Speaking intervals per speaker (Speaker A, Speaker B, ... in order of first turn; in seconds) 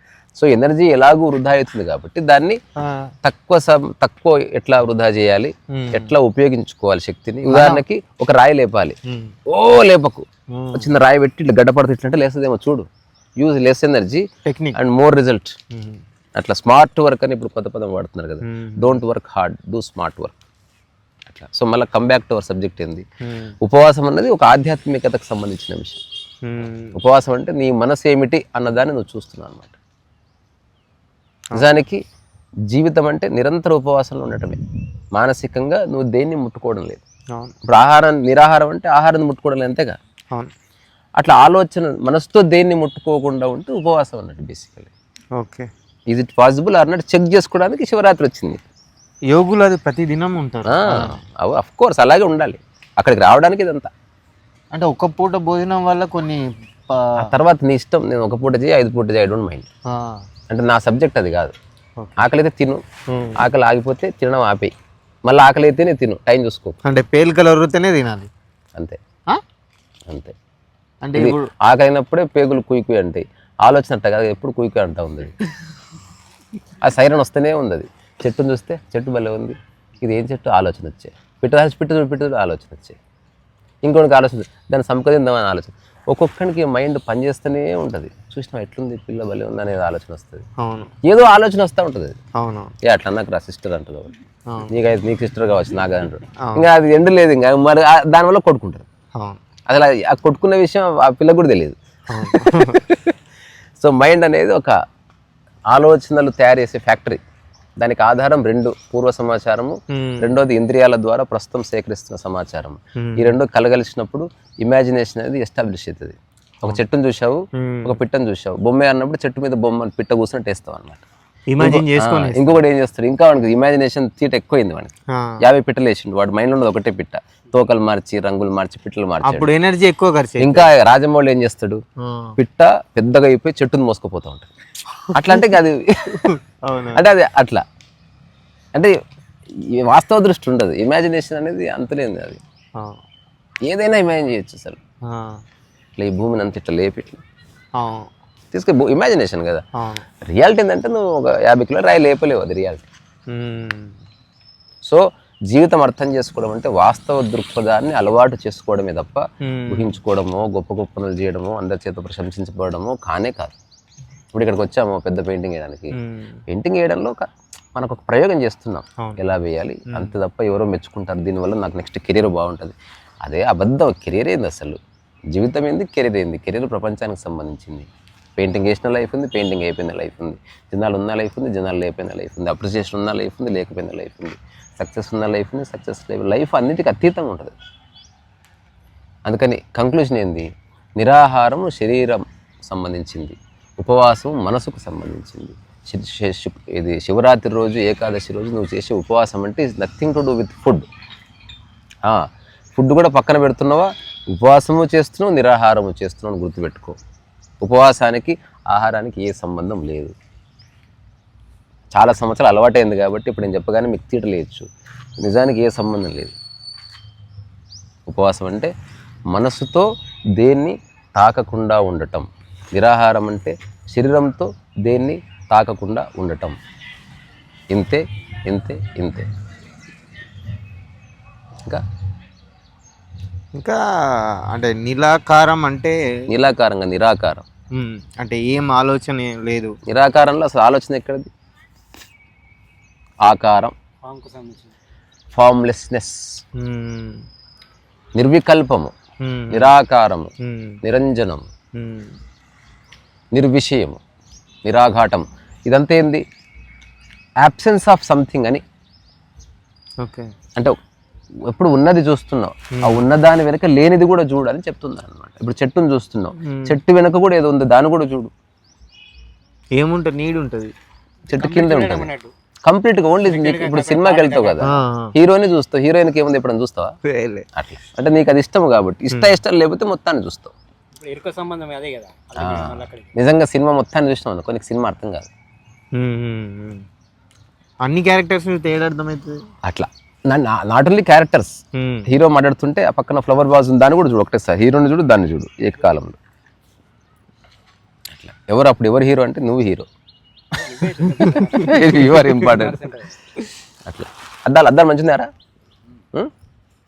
Speaker A: 0.4-2.6, 3.2-9.0, 9.5-12.9, 13.4-14.2, 14.7-15.5, 16.4-20.4, 21.3-23.0, 23.6-26.0, 26.9-29.8, 31.5-32.0, 32.7-34.6, 35.1-37.0, 37.6-40.0, 41.2-44.9, 46.1-48.6, 50.6-53.9, 57.2-59.6, 60.5-61.5, 62.2-62.8, 63.4-64.7, 65.2-66.8, 70.1-70.3, 71.2-75.3, 76.8-83.0, 83.8-90.4, 91.0-92.2, 92.8-94.1, 94.7-98.8, 99.7-103.1, 103.8-104.7, 105.7-107.2, 107.8-121.0, 121.6-129.5, 130.4-131.8, 132.4-134.5, 135.1-136.3, 136.9-137.6, 139.6-142.4, 143.7-144.8, 146.0-147.2, 148.5-149.6, 150.3-152.9, 154.8-163.6, 164.3-165.9, 166.5-174.8, 175.3-187.5, 189.2-190.5, 191.0-200.9, 202.8-207.0, 207.6-210.1, 211.9-214.7, 215.2-216.4, 218.1-218.7, 219.3-226.6, 227.7-229.3, 236.3-237.5, 239.9-241.3, 243.2-243.7, 245.3-246.3, 248.2-248.9, 249.5-250.3, 250.8-251.5, 253.3-254.0, 254.6-256.2, 257.4-258.6, 261.5-268.3, 271.3-272.1, 272.6-276.9, 277.5-280.5, 282.4-285.3, 289.6-296.2, 298.1-299.9, 301.5-302.9, 303.9-305.3
Speaker B: 2.8-3.1, 5.7-6.1, 7.5-7.8, 9.1-9.3, 10.5-10.9, 14.4-14.8, 15.7-16.0, 18.4-19.0, 23.2-23.5, 26.4-27.0, 45.4-45.7, 49.3-51.1, 54.7-57.2, 59.9-60.2, 63.1-63.4, 66.8-68.3, 71.0-71.5, 90.6-90.9, 92.4-92.7, 102.1-102.8, 109.9-110.3, 113.0-113.3, 117.5-118.0, 121.5-122.6, 129.2-130.7, 132.0-132.3, 136.3-137.0, 145.1-145.4, 147.8-148.1, 149.8-150.0, 153.3-154.0, 159.4-159.9, 165.9-166.4, 234.5-236.0, 237.7-239.7, 246.6-247.2, 249.2-249.7, 250.4-250.8, 251.8-252.1, 260.0-260.3, 262.8-263.0, 266.4-266.8, 269.8-270.7, 274.6-275.1, 277.1-277.4, 279.1-279.4, 285.9-286.8, 287.8-289.4, 291.8-292.1, 300.7-302.5
Speaker C: 244.0-244.7, 271.3-272.3, 273.2-274.7, 281.0-283.1, 300.5-303.1